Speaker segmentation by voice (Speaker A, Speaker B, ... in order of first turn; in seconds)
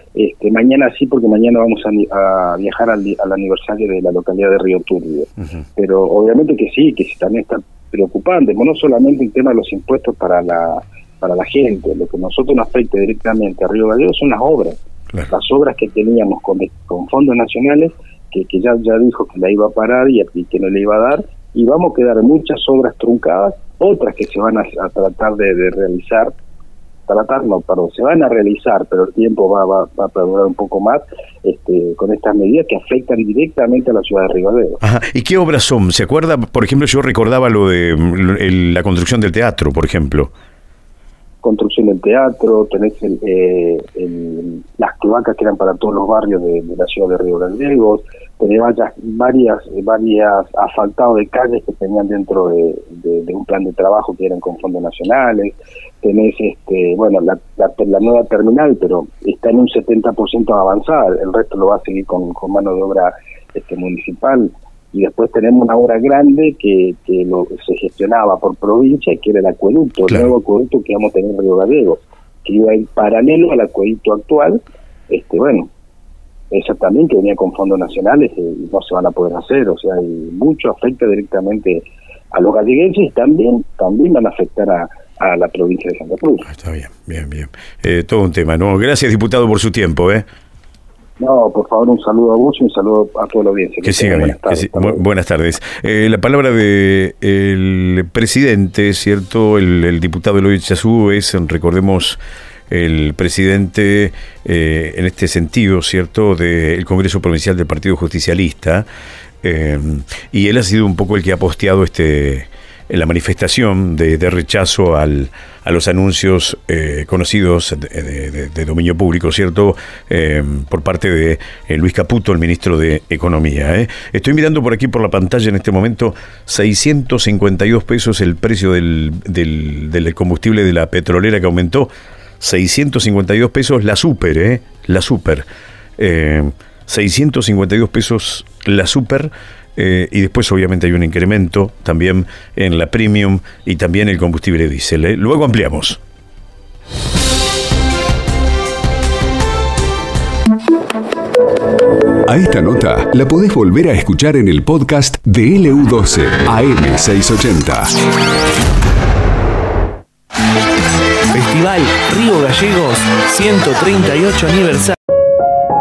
Speaker A: 0.1-14.8, 15.3-26.3, 27.1-34.8, 41.4-75.7, 76.5-86.5, 91.2-95.0
Speaker B: 34.8-40.3, 86.5-90.2, 93.8-102.2, 102.7-108.9, 109.4-131.9, 132.4-135.4, 136.0-146.0
Speaker C: 152.3-157.9
Speaker D: 161.3-165.0